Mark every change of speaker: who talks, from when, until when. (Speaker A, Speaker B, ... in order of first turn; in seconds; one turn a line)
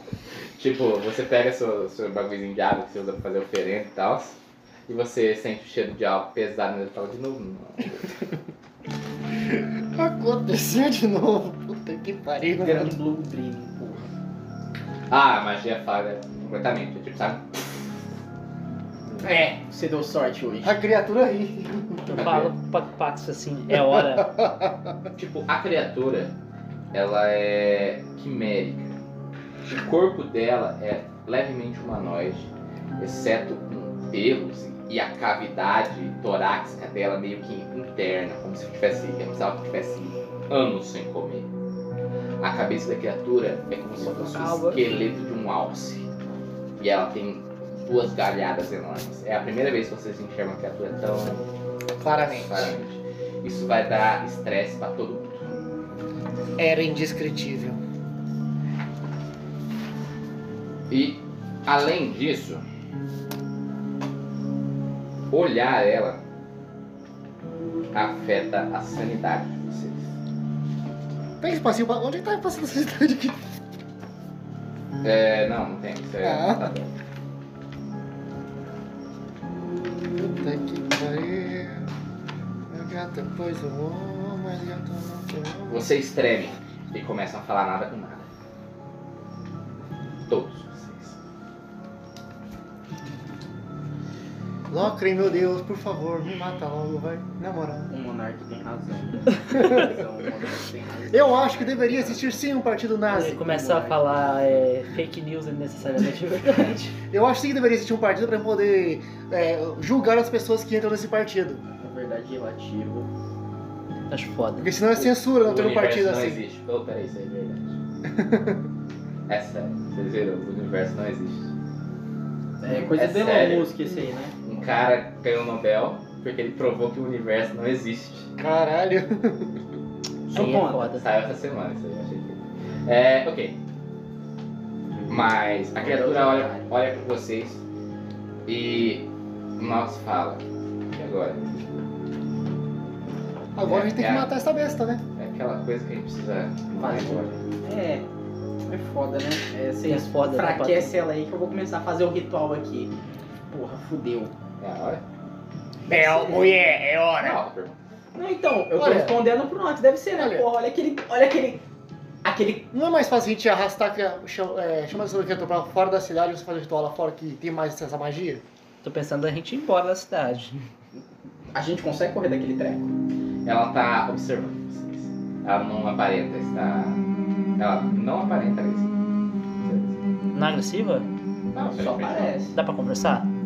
Speaker A: 0.6-8.2
Speaker B: 9.4-12.9
Speaker C: 12.6-14.1
Speaker A: 15.1-17.9
Speaker C: 19.2-20.8
Speaker B: 20.6-22.4
Speaker D: 22.1-24.4
Speaker A: 22.1-22.5
Speaker B: 23.9-24.9
Speaker A: 25.1-26.3
Speaker A: 26.9-29.0
Speaker A: 29.7-41.5
Speaker A: 42.4-46.1
Speaker D: 44.0-44.8
Speaker C: 44.5-44.7
Speaker A: 46.8-51.5
Speaker B: 52.0-52.7
Speaker A: 52.1-55.6
Speaker B: 56.6-57.8
Speaker A: 60.9-62.6
Speaker A: 65.3-66.2
Speaker A: 67.9-70.1
Speaker B: 71.4-73.4
Speaker A: 75.0-76.9
Speaker B: 76.2-76.7
Speaker B: 80.1-81.9
Speaker B: 82.7-85.9
Speaker A: 85.7-88.3
Speaker A: 90.3-91.2
Speaker B: 94.7-97.9
Speaker C: 97.9-102.4
Speaker B: 99.5-99.9
Speaker B: 101.1-103.4
Speaker C: 103.1-104.6
Speaker D: 103.1-106.9
Speaker B: 107.1-111.6
Speaker C: 111.7-113.1
Speaker D: 114.1-114.7
Speaker B: 114.6-116.4
Speaker A: 115.0-117.8
Speaker B: 118.1-118.6
Speaker A: 119.3-121.5
Speaker C: 122.6-124.3
Speaker A: 122.9-123.7
Speaker A: 124.4-128.3
Speaker B: 128.4-129.6
Speaker C: 130.3-131.0
Speaker D: 130.3-131.0
Speaker A: 130.4-133.6
Speaker A: 135.1-137.6
Speaker C: 135.8-136.7
Speaker A: 138.4-141.8
Speaker B: 143.5-145.0
Speaker A: 143.6-144.3
Speaker A: 145.2-147.4
Speaker C: 146.8-148.1
Speaker C: 148.7-152.9
Speaker D: 149.8-150.9
Speaker C: 153.5-154.3
Speaker A: 154.6-155.0
Speaker B: 155.8-157.4
Speaker C: 155.9-156.6
Speaker A: 157.2-157.8
Speaker C: 158.1-161.6
Speaker B: 158.8-159.2
Speaker B: 160.1-160.4
Speaker C: 162.2-162.7
Speaker B: 162.7-168.4
Speaker D: 168.8-170.6
Speaker C: 171.5-172.9
Speaker A: 173.4-177.0
Speaker A: 177.6-178.9
Speaker A: 179.6-180.0
Speaker D: 180.3-181.1
Speaker A: 181.5-182.3
Speaker C: 181.7-182.5
Speaker D: 182.5-183.3